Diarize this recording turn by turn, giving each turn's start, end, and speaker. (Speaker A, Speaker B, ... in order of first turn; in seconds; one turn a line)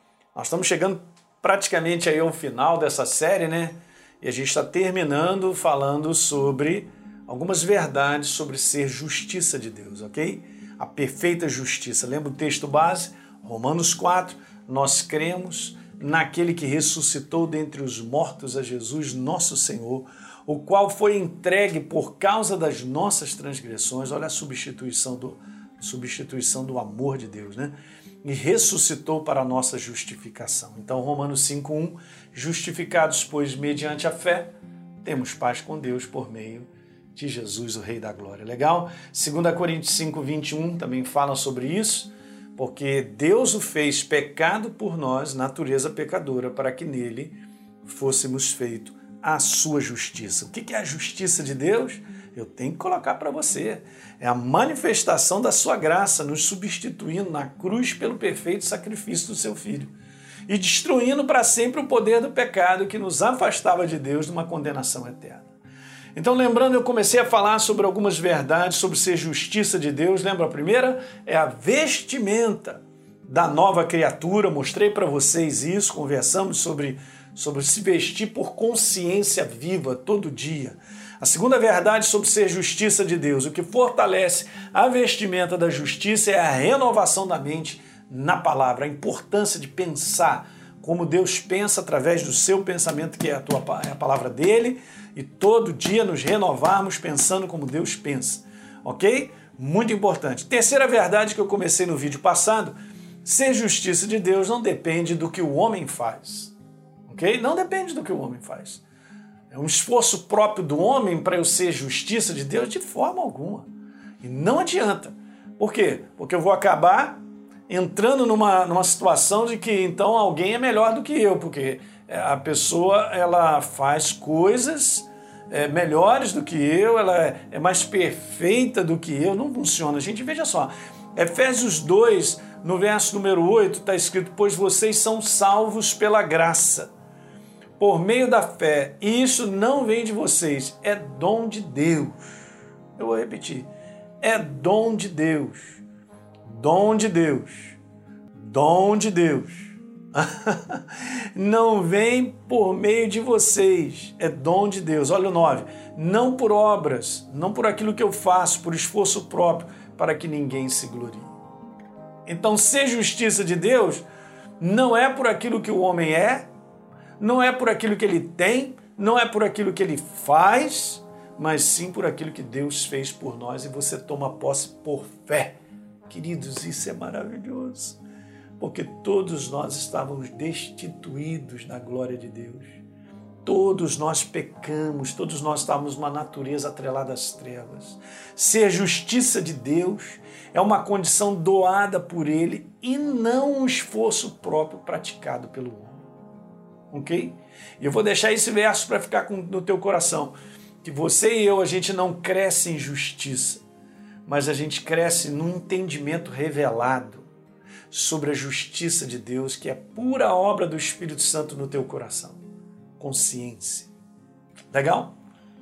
Speaker A: 0.3-34.5
Speaker A: 35.0-59.9
Speaker A: 60.5-65.5
Speaker A: 66.1-106.5
Speaker A: 107.1-108.8
Speaker A: 109.5-113.7
Speaker A: 114.2-136.9
Speaker A: 137.8-143.7
Speaker A: 144.2-145.8
Speaker A: 146.5-147.8
Speaker A: 148.3-161.3
Speaker A: 162.2-164.0
Speaker A: 164.6-166.5
Speaker A: 167.2-175.6
Speaker A: 176.1-178.0
Speaker A: 178.6-182.8
Speaker A: 183.4-196.0
Speaker A: 196.9-203.6
Speaker A: 204.2-207.3
Speaker A: 207.9-212.4
Speaker A: 213.0-213.9
Speaker A: 214.7-215.1